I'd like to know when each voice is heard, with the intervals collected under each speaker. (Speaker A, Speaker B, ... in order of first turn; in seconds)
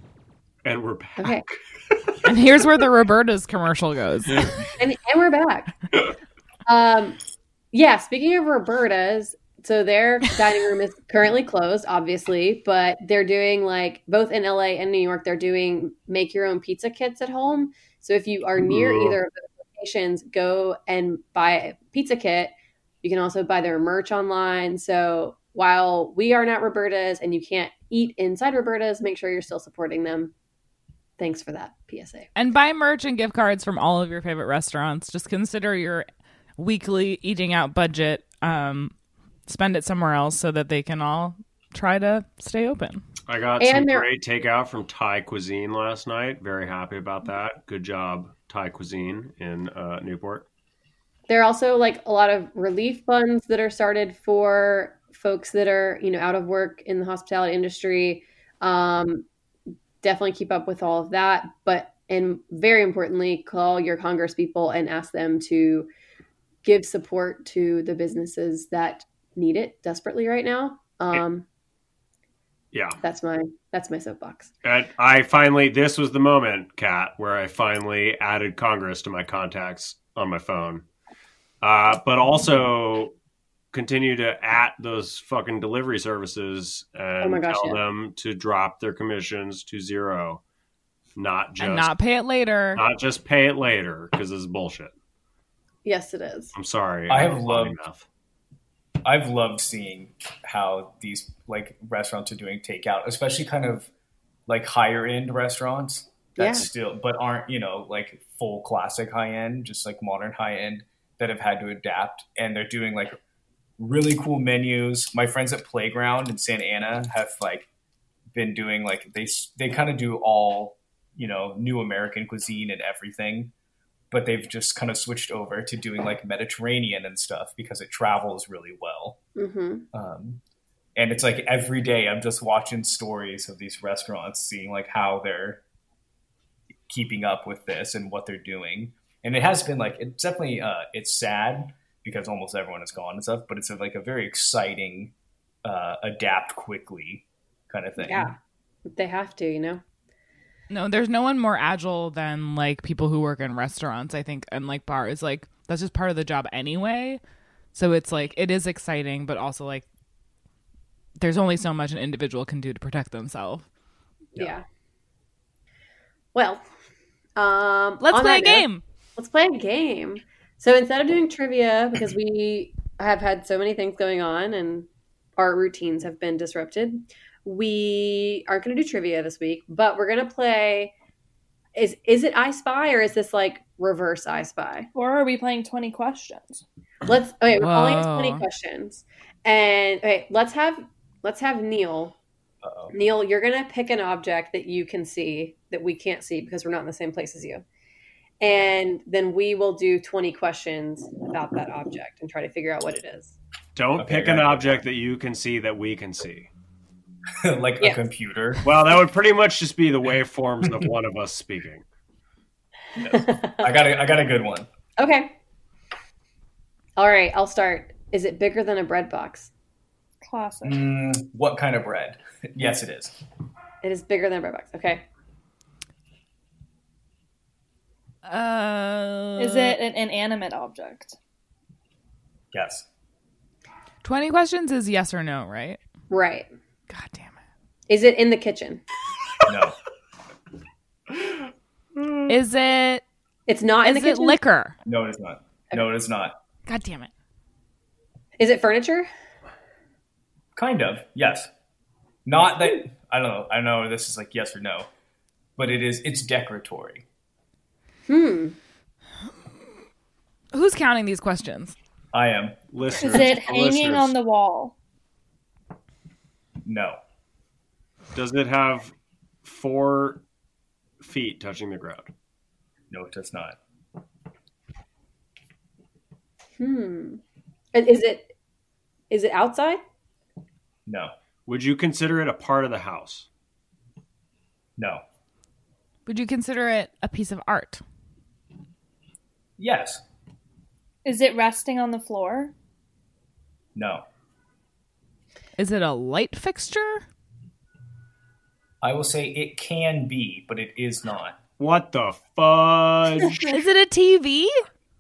Speaker A: 0.7-2.1, 18.6-19.2, 43.3-50.5, 72.7-73.0, 74.6-80.8, 81.6-83.1, 83.7-90.4, 91.2-91.9, 92.8-94.9, 96.5-98.0, 203.8-206.5, 208.7-211.8, 262.7-264.1, 268.1-270.2, 271.0-272.1, 281.5-283.3, 301.6-303.5
Speaker B: 1.2-1.4, 4.8-5.7, 6.7-7.2, 7.7-30.3, 31.2-32.3, 43.6-44.1, 51.3-59.3, 60.0-65.9, 66.6-71.5, 73.0-74.5, 87.2-87.8, 95.8-96.5, 106.4-106.7, 129.4-129.8, 148.0-148.4, 148.9-149.8, 164.3-164.6, 166.3-166.7, 167.4-180.9, 181.8-184.9, 187.1-192.2, 192.9-197.6, 198.4-203.3, 213.0-213.7, 215.0-215.3, 217.0-219.5, 223.8-225.1, 236.1-236.5, 237.9-238.8, 243.5-244.4, 248.4-249.1, 258.1-258.6, 276.6-277.2, 277.7-278.3, 279.1-279.8
Speaker C: 2.2-4.6, 32.4-36.1, 36.6-38.9, 39.5-43.0, 91.6-92.8, 150.7-157.2, 157.7-159.8, 161.2-163.7, 168.0-168.8, 187.6-188.4, 228.2-229.8, 234.0-235.8, 236.9-237.4, 242.3-243.0, 243.8-244.8, 246.7-247.1, 260.5-261.8, 286.1-287.8, 295.6-297.1, 303.4-304.6
Speaker D: 97.1-97.8, 99.0-103.9, 104.5-113.2, 113.8-117.7, 118.3-123.5, 124.1-129.2, 129.9-130.4, 131.0-135.6, 136.9-145.1, 145.6-148.3, 192.6-192.9, 204.0-204.9, 207.4-208.8, 213.0-214.7, 220.6-223.2, 232.5-232.9, 239.5-239.8, 244.9-246.4, 250.6-251.5, 252.3-254.9, 255.6-257.0, 262.1-262.6, 266.6-267.0, 272.9-273.6, 280.9-281.1, 284.8-285.0, 289.6-290.0, 293.8-294.1, 298.8-301.4
Speaker E: 184.9-186.6, 220.2-220.8, 229.4-231.2, 263.0-264.7, 291.1-292.5